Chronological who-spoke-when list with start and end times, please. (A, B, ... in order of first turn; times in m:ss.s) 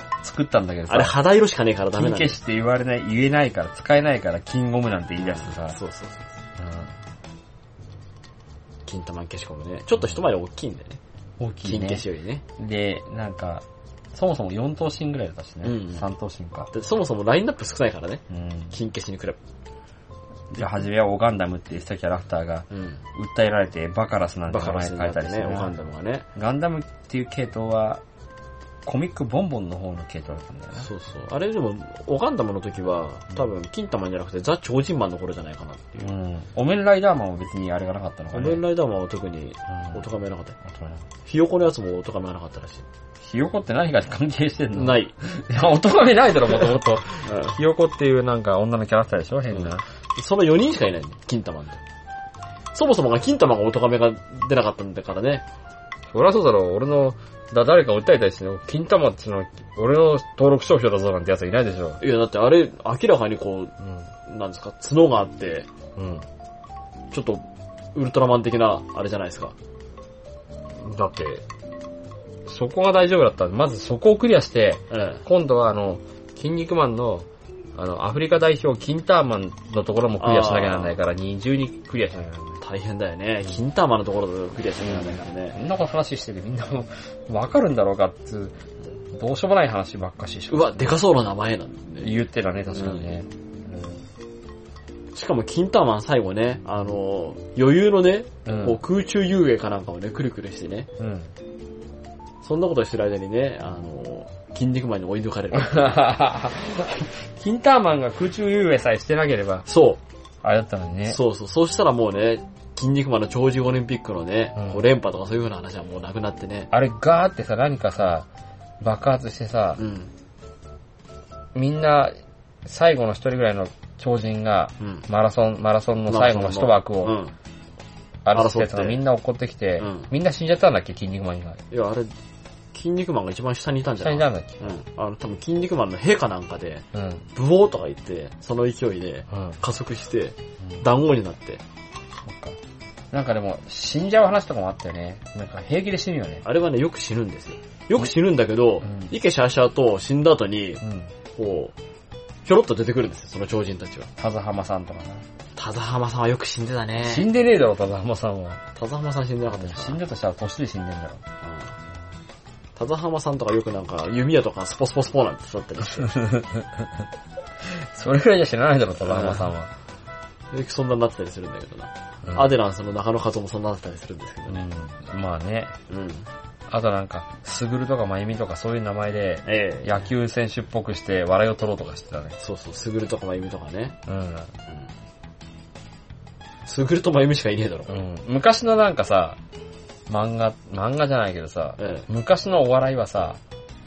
0:00.2-0:01.1 A
0:00.9-0:02.4 B
0:01.9-0:05.8 A
0:05.2-0:06.3 B
0:06.6-0:06.9 A
0:08.8-0:11.0 B
0:11.4-0:12.0 A
0:11.6-0:12.4 B
0:12.6-0:16.7 A
0:15.6-0:16.0 B
0:16.7-0:19.4 B
0:18.3-0:18.7 A
0:20.5-0:25.7 A
0:22.7-0:23.0 B
0:24.5-0:26.3 B
0:26.3-0:28.0 A
0:28.8-0:30.9 A
0:30.8-0:36.1 B
0:36.0-0:38.6 A
0:38.3-0:40.6 B
0:39.7-0:40.0 A
0:40.6-0:41.0 A
0:41.2-0:42.8 B
0:43.2-0:49.8 A
0:44.7-0:45.1 B
0:47.2-0:47.6 B
0:49.5-0:51.8 B
0:52.7-0:55.4 B
0:56.1-1:02.0 A
1:02.0-1:03.7 B
1:03.8-1:04.1 A
1:04.2-1:05.7 B
1:06.0-1:06.2 A
1:07.1-1:09.5 B
1:10.7-1:11.4 A
1:12.4-1:22.6 A
1:14.9-1:15.2 B
1:20.2-1:21.0 B
1:22.6-1:25.6 B
1:24.8-1:28.6 A
1:29.1-1:30.9 A
1:30.5-1:32.1 B
1:32.0-1:34.0 A
1:32.7-1:33.1 B
1:35.1-1:40.9 B
1:38.4-1:38.8 A
1:41.0-1:41.3 A
1:42.4-1:46.0 B
1:45.5-1:49.7 A
1:49.7-1:50.0 B
1:50.4-1:51.2 A
1:51.1-1:56.7 B
1:54.6-1:54.8 A
1:56.7-1:58.3 A
1:58.8-1:59.8 A
1:59.8-2:00.1 B
2:01.5-2:02.1 A
2:02.6-2:07.2 A
2:04.8-2:05.0 B
2:06.1-2:07.3 B
2:08.2-2:11.6 A
2:08.3-2:09.0 B
2:09.8-2:10.1 B
2:11.7-2:12.1 B
2:12.7-2:21.6 B
2:14.0-2:14.8 A
2:16.9-2:17.2 A
2:19.3-2:19.6 A
2:22.2-2:22.6 A
2:23.1-2:26.4 A
2:26.4-2:30.8 B
2:28.8-2:29.1 A
2:30.8-2:31.1 A
2:31.3-2:31.7 B
2:32.4-2:34.1 B
2:34.2-2:35.2 A
2:35.6-2:37.3 B
2:37.0-2:38.6 A
2:38.7-2:40.0 B
2:39.5-2:41.2 A
2:41.4-2:41.8 B
2:42.8-2:46.1 B
2:46.0-2:46.9 A
2:47.6-2:49.7 A
2:49.0-2:49.5 B
2:50.5-2:54.6 B
2:52.2-2:52.5 A
2:54.5-2:55.8 A
2:55.9-2:56.3 B
2:56.7-3:02.4 A
2:59.4-3:00.1 B
3:02.4-3:04.0 B
3:04.1-3:04.5 A
3:06.6-3:08.0 B
3:07.9-3:09.4 A
3:10.1-3:13.4 A
3:11.8-3:12.1 B